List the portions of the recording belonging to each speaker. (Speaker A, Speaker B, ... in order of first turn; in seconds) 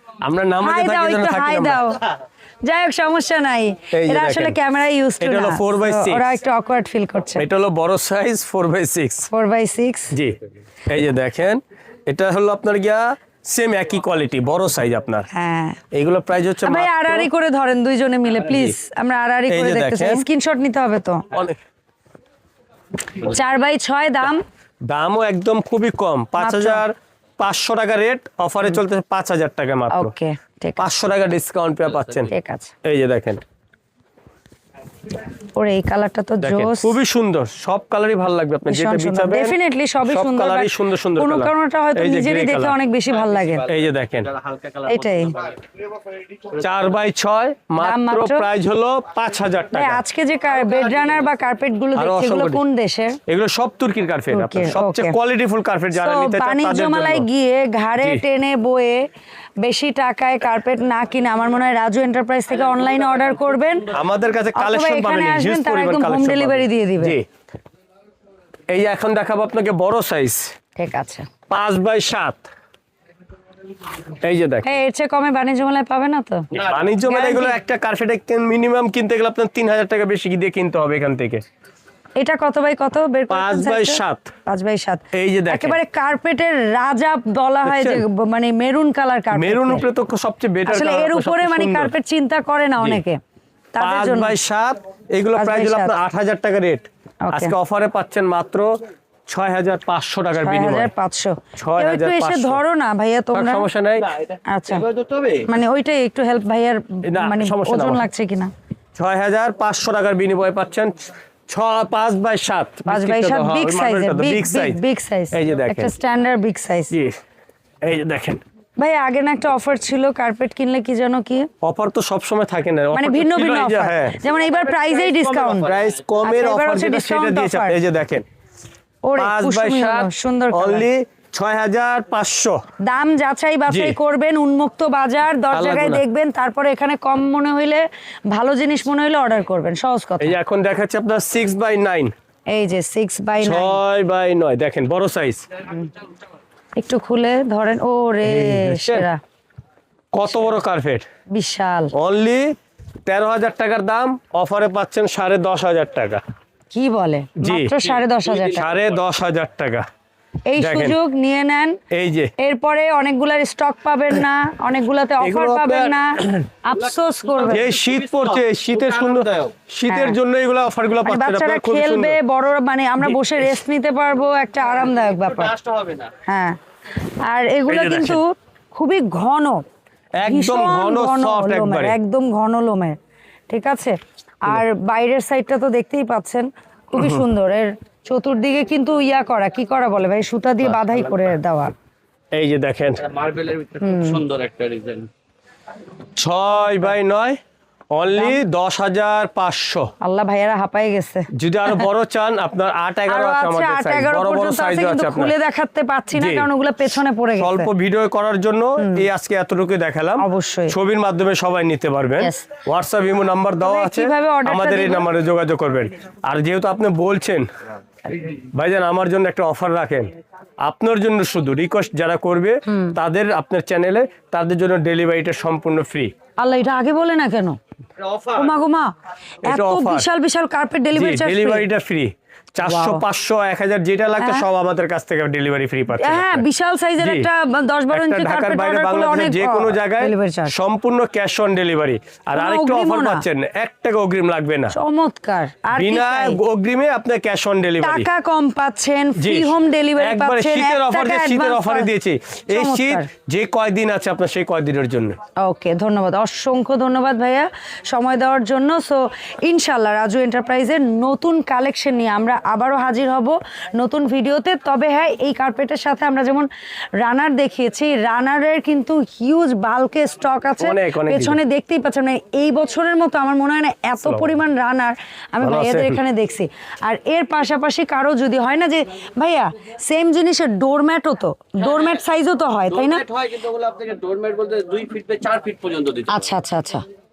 Speaker A: 0.2-1.8, 3.9-4.6, 5.2-6.3, 7.4-9.3, 10.1-15.3, 15.9-17.3, 19.5-20.2, 21.3-21.6, 24.9-30.1, 30.8-32.3, 32.8-33.4, 36.4-42.8, 43.6-44.4, 46.5-50.0, 52.0-52.6, 53.3-57.3, 63.9-67.3, 68.7-70.5, 71.5-72.5, 74.1-74.7, 76.5-81.4, 83.3-84.3, 85.1-85.8, 87.6-88.0, 89.3-91.9, 93.8-98.7, 99.3-100.9, 101.6-102.6, 103.3-104.1, 107.0-108.0, 109.0-115.9, 116.9-117.2, 117.8-118.4, 121.6-124.2, 125.6-128.2, 129.2-132.6, 133.7-134.0, 135.5-136.0, 140.2-142.1, 143.4-145.5, 148.2-149.1, 150.1-151.1, 151.9-152.6, 153.1-156.2, 157.4-157.8, 158.5-159.9, 160.6-161.0, 161.9-162.3, 165.2-166.5, 167.4-172.2, 173.0-173.6, 177.7-178.2, 180.2-182.0, 186.9-187.3, 192.3-193.2, 196.2-197.4, 197.9-199.9, 201.3-205.3, 206.2-217.5, 218.2-226.1, 229.4-230.1, 230.9-236.4, 237.0-237.3, 237.9-244.8, 245.8-248.1, 249.2-255.2, 270.6-271.4, 274.0-274.4, 275.4-276.0
Speaker B: 0.6-2.1, 2.6-7.5, 9.3-10.1, 15.3-15.8, 16.6-21.2, 23.2-24.4, 26.4-26.8, 29.9-30.9, 32.3-32.7, 35.5-37.0, 38.7-43.7, 44.8-45.5, 47.8-48.5, 49.7-53.2, 54.3-55.2, 55.9-59.1, 59.6-63.9, 64.5-67.2, 70.8-71.3, 74.6-77.6, 82.2-89.8, 90.7-93.2, 93.7-94.3, 95.4-96.0, 97.2-97.5, 100.4-103.7, 104.5-104.9, 105.4-108.5, 112.9-116.9, 118.8-121.5, 122.9-125.7, 126.2-127.8, 129.1-130.9, 132.8-140.4, 142.5-143.8, 146.8-149.2, 151.3-151.9, 156.7-158.7, 160.5-161.8, 162.4-167.7, 169.9-170.2, 171.0-175.6, 176.2-176.6, 177.2-179.6, 180.2-183.0, 183.5-191.7, 193.8-194.2, 200.0-201.8, 203.1-207.7, 208.8-209.1, 210.2-210.7, 212.2-212.5, 213.6-215.1, 222.7-222.9, 226.4-227.6, 228.3-228.9, 229.5-231.7, 232.6-233.0, 234.2-234.5, 235.9-240.5, 242.3-243.2, 244.7-246.4, 247.8-251.9, 252.5-253.1, 255.4-266.5, 267.0-283.1, 286.1-286.8
Speaker C: 104.9-105.3, 175.6-176.1, 193.2-195.1, 283.1-286.1